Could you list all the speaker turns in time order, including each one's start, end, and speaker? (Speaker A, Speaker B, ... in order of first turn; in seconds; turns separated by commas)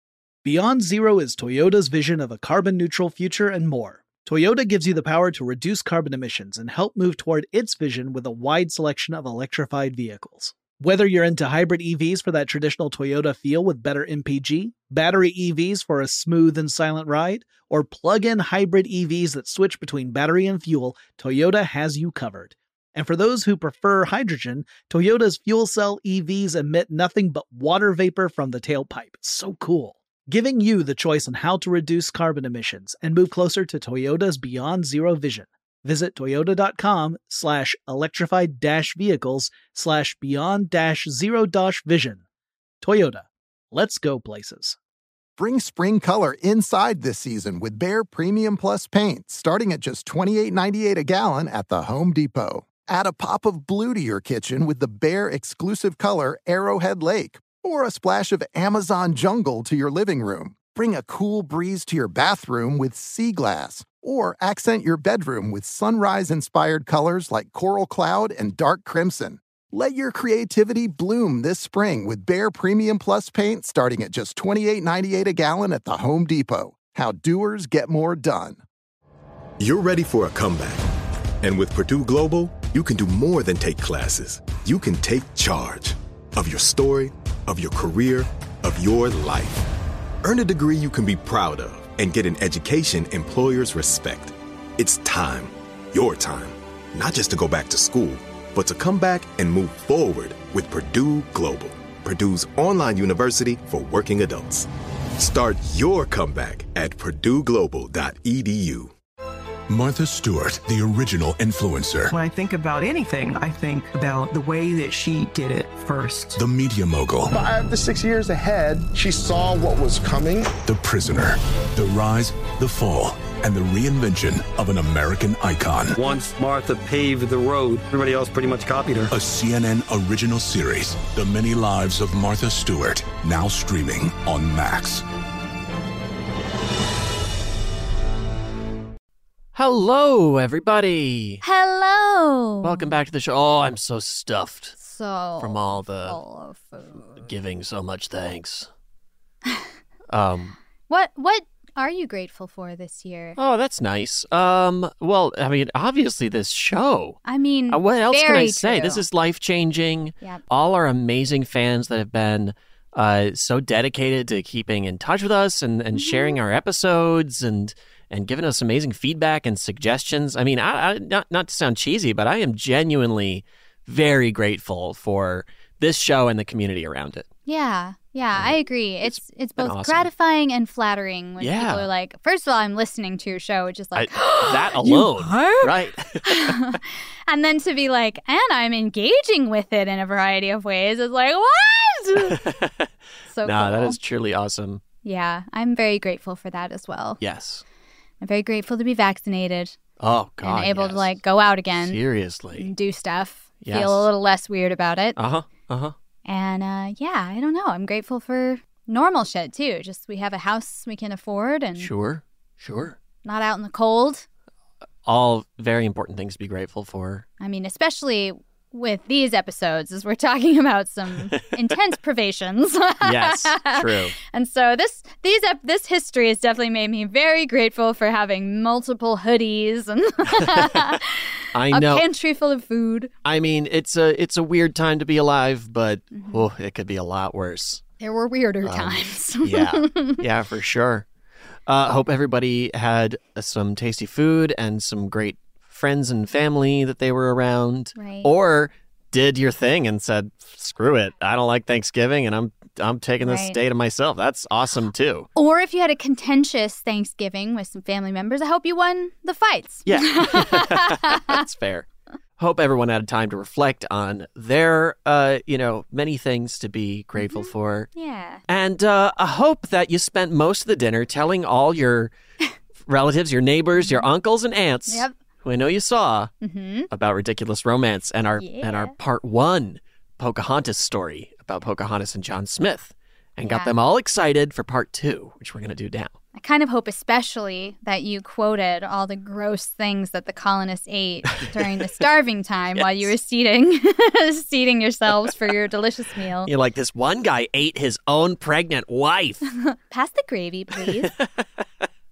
Speaker A: 0.4-42.2, Speaker A: 42.8-44.8, Speaker B: 45.4-78.6, Speaker C: 79.6-80.8, Speaker C: 81.4-89.6, Speaker C: 90.2-104.7, Speaker C: 105.2-108.9, Speaker D: 109.7-112.1, Speaker E: 112.1-116.4, Speaker D: 116.3-117.3, Speaker F: 117.3-120.5, Speaker D: 120.7-126.0, Speaker G: 126.0-129.1, Speaker D: 129.1-135.0, Speaker H: 139.5-141.4, Speaker I: 141.4-142.9, Speaker H: 142.6-144.7, Speaker I: 144.8-147.2, Speaker H: 145.4-146.2, Speaker H: 147.2-148.7, Speaker H: 150.1-150.6, Speaker I: 150.9-153.4, Speaker H: 153.4-177.3, Speaker I: 157.2-159.0, Speaker I: 165.9-166.4, Speaker I: 177.5-185.6, Speaker H: 178.3-180.1, Speaker H: 181.4-181.9, Speaker H: 183.9-186.6, Speaker I: 186.2-192.4, Speaker H: 192.2-192.9, Speaker I: 193.3-194.0, Speaker H: 193.4-194.8, Speaker I: 195.0-197.2, Speaker H: 197.2-197.6, Speaker I: 198.2-199.8, Speaker H: 200.0-201.2, Speaker I: 200.4-202.0, Speaker H: 201.8-202.7, Speaker I: 202.5-205.2, Speaker H: 203.6-204.1, Speaker H: 205.2-205.9, Speaker I: 206.2-211.9, Speaker H: 211.8-212.9, Speaker I: 213.2-214.2, Speaker H: 215.0-217.2, Speaker I: 217.4-233.1, Speaker H: 223.0-224.2, Speaker H: 231.5-232.0, Speaker H: 233.2-237.8, Speaker I: 236.1-236.4, Speaker I: 238.0-240.2, Speaker H: 238.6-241.1, Speaker H: 241.7-255.3, Speaker I: 248.0-248.3, Speaker I: 253.2-253.6, Speaker I: 255.3-261.4, Speaker H: 259.9-261.9, Speaker H: 262.4-267.9, Speaker I: 267.2-268.4, Speaker H: 268.5-272.1, Speaker H: 272.9-276.3, Speaker I: 273.8-274.1, Speaker I: 274.9-275.1, Speaker I: 276.4-276.9, Speaker H: 276.9-286.1, Speaker I: 278.4-278.9, Speaker I: 283.5-283.7, Speaker I: 286.4-296.5, Speaker H: 292.8-293.1, Speaker H: 296.4-299.4, Speaker I: 299.6-301.1, Speaker H: 301.0-301.4